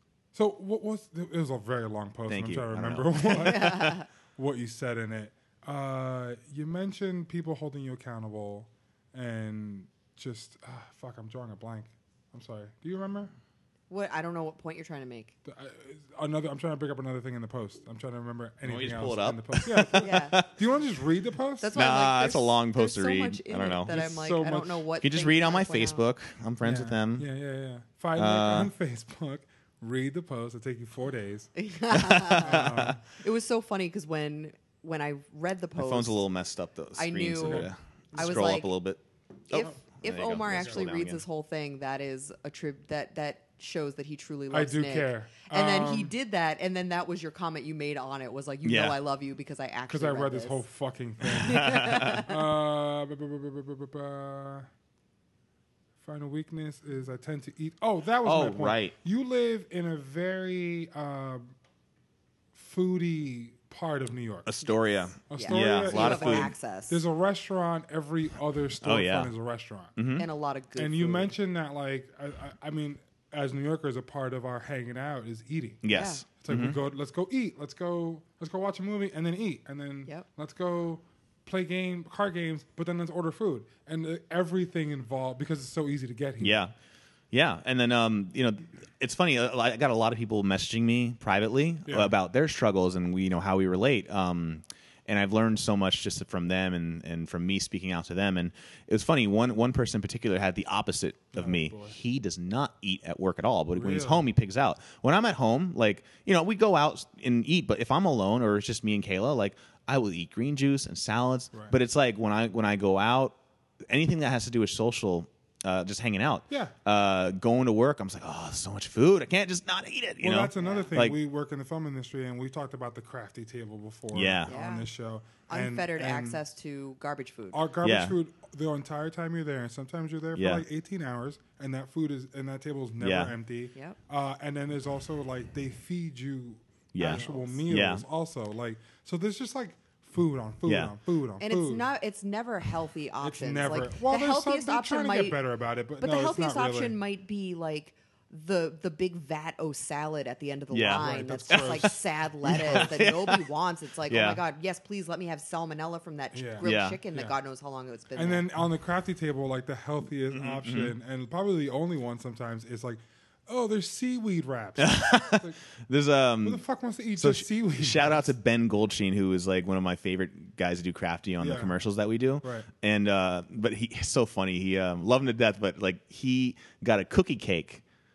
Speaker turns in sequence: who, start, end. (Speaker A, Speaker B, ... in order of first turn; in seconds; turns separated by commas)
Speaker A: 0.3-13.3, Speaker B: 2.3-3.9, Speaker C: 3.3-4.1, Speaker C: 13.9-15.3, Speaker A: 15.4-21.7, Speaker B: 18.6-20.5, Speaker C: 20.0-20.4, Speaker C: 21.6-26.0, Speaker B: 21.7-23.9, Speaker A: 23.9-24.9, Speaker B: 25.0-27.2, Speaker A: 26.6-31.5, Speaker B: 28.1-28.7, Speaker C: 31.6-36.2, Speaker B: 31.9-33.0, Speaker A: 32.4-33.0, Speaker B: 35.8-41.2, Speaker C: 37.0-38.7, Speaker A: 37.4-37.7, Speaker C: 39.5-50.6, Speaker A: 44.5-46.1, Speaker B: 48.6-49.0, Speaker A: 49.9-54.7, Speaker C: 51.4-52.4, Speaker B: 51.4-52.2, Speaker A: 56.0-61.5, Speaker B: 58.2-58.9, Speaker A: 62.5-64.5, Speaker B: 64.5-66.5, Speaker C: 65.2-67.0, Speaker A: 65.3-70.0, Speaker B: 68.8-69.3, Speaker B: 70.0-70.2, Speaker C: 70.2-71.3, Speaker A: 70.8-86.6, Speaker B: 75.8-76.8, Speaker C: 75.9-76.2, Speaker B: 86.4-86.7, Speaker B: 87.3-113.3, Speaker A: 91.9-92.1, Speaker A: 101.3-102.0, Speaker A: 103.7-104.3, Speaker B: 113.9-121.2, Speaker A: 116.5-116.7, Speaker A: 120.2-126.4, Speaker C: 120.6-120.9, Speaker B: 124.1-124.5, Speaker C: 124.5-124.9, Speaker C: 125.5-127.6, Speaker A: 127.5-141.9, Speaker B: 127.8-128.2, Speaker B: 130.3-130.6, Speaker B: 133.0-133.3, Speaker B: 136.9-138.0, Speaker C: 137.0-137.6, Speaker B: 140.6-140.9, Speaker C: 141.4-145.4, Speaker A: 143.2-147.0, Speaker C: 146.0-158.4, Speaker B: 150.7-151.9, Speaker A: 150.9-152.0, Speaker B: 152.4-153.5, Speaker B: 154.1-154.4, Speaker A: 156.3-157.3, Speaker B: 156.6-157.0, Speaker A: 158.1-165.6, Speaker B: 160.3-160.9, Speaker B: 164.8-166.6, Speaker A: 166.4-168.3, Speaker B: 167.2-177.8, Speaker A: 171.4-171.7, Speaker A: 172.4-172.7